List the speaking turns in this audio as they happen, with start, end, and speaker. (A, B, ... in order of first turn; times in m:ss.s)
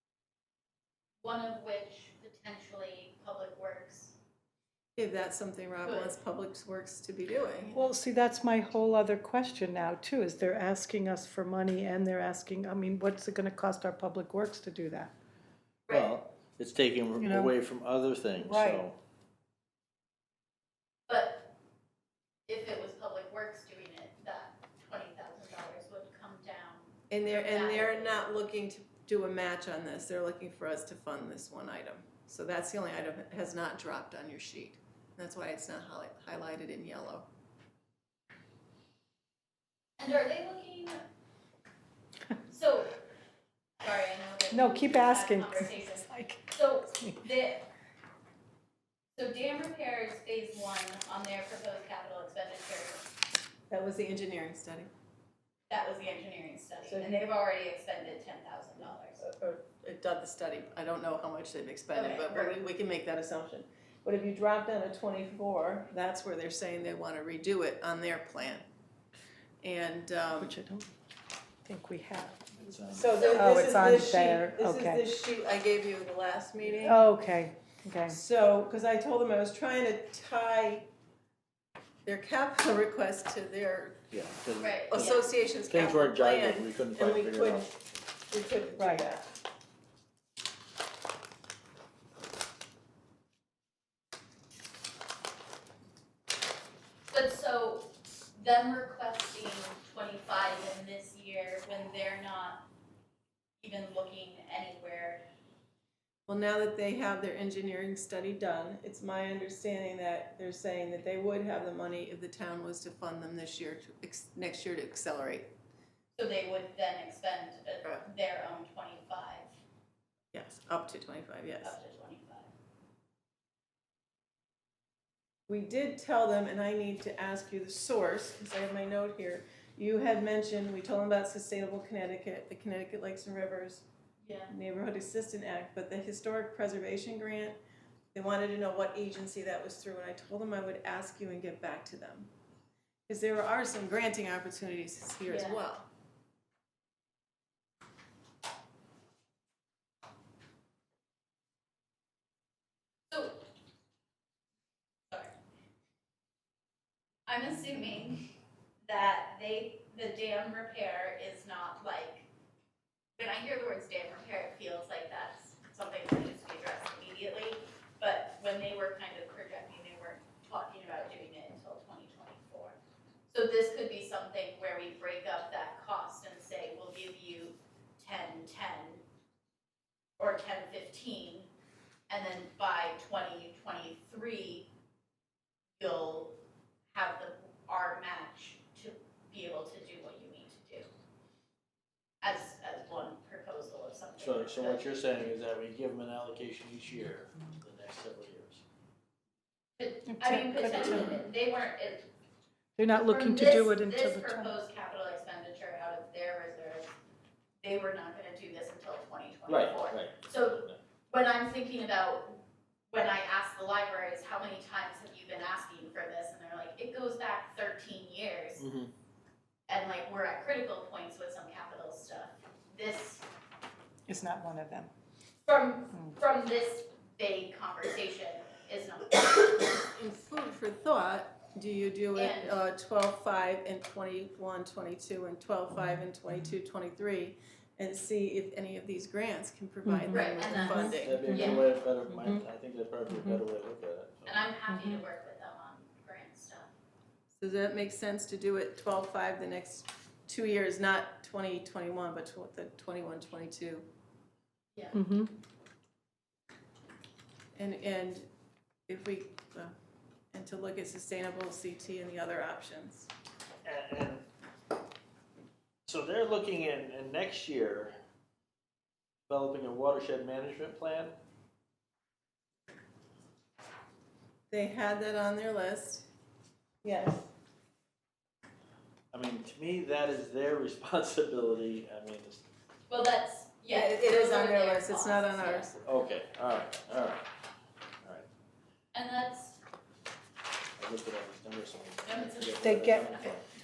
0:01.2-0:04.2 A
0:05.0-0:07.8 B
0:05.8-0:06.2 A
0:07.7-0:15.1 C
0:15.9-0:16.1 A
0:15.9-0:19.0 D
0:17.2-0:17.5 C
0:18.4-0:18.8 C
0:21.1-0:21.5 A
0:22.5-0:28.2 A
0:27.1-0:37.2 B
0:40.0-0:41.0 A
0:42.5-0:43.0 A
0:43.8-0:47.7 A
0:44.5-0:46.5 C
0:49.2-0:53.0 A
0:53.7-0:54.9 B
0:55.7-0:59.2 A
0:56.8-0:57.2 B
0:59.2-1:08.6 B
1:01.9-1:02.5 A
1:09.6-1:10.5 B
1:10.4-1:10.9 C
1:11.6-1:12.4 C
1:12.5-1:13.4 D
1:12.9-1:17.0 B
1:13.2-1:15.0 C
1:16.8-1:18.2 C
1:18.1-1:20.9 B
1:22.0-1:24.0 B
1:24.1-1:27.8 D
1:24.6-1:25.3 A
1:24.9-1:29.3 B
1:28.8-1:29.0 C
1:37.1-1:42.6 A
1:43.6-1:45.2 A
1:46.3-1:55.5 B
1:56.1-1:59.5 A
2:00.3-2:01.8 B
2:01.6-2:02.5 A
2:05.5-2:13.8 B
2:14.2-2:14.5 A
2:14.5-2:17.6 B
2:18.1-2:22.3 B
2:23.1-2:25.9 B
2:25.2-2:25.6 A
2:33.1-2:33.4 A
2:37.3-2:38.2 A
2:38.8-2:42.3 A
2:43.2-2:52.8 A
2:53.3-2:59.0 A
3:00.2-3:01.5 A
3:02.1-3:04.7 A
3:05.8-3:06.4 A
3:06.9-3:10.9 A
3:12.2-3:14.9 A
3:14.2-3:18.6 D
3:19.8-3:22.1 A
3:20.1-3:21.2 C
3:20.7-3:21.1 D
3:22.8-3:24.5 C
3:23.0-3:26.9 A
3:27.6-3:32.4 A
3:29.5-3:30.8 D
3:32.9-3:38.6 A
3:38.6-3:38.9 D
3:39.7-3:43.2 A
3:44.1-3:44.9 C
3:45.4-3:49.8 A
3:49.8-4:01.4 B
3:52.1-3:52.6 A
3:59.8-4:02.4 C
4:00.1-4:01.6 A
4:00.8-4:04.5 D
4:03.1-4:03.4 C
4:04.2-4:06.7 A
4:04.7-4:05.0 C
4:07.4-4:13.8 B
4:14.9-4:15.3 C
4:17.5-4:18.3 B
4:18.9-4:19.7 B
4:20.3-4:23.1 B
4:23.6-4:24.2 D
4:25.8-4:27.9 D
4:29.3-4:31.1 D
4:34.5-4:36.0 B
4:36.8-4:37.3 B
4:39.1-4:42.4 D
4:42.9-4:45.7 A
4:43.7-4:45.8 B
4:45.8-4:47.2 D
4:48.9-4:49.6 A
4:50.8-4:53.4 D
4:52.0-4:53.4 A
4:52.6-4:53.1 C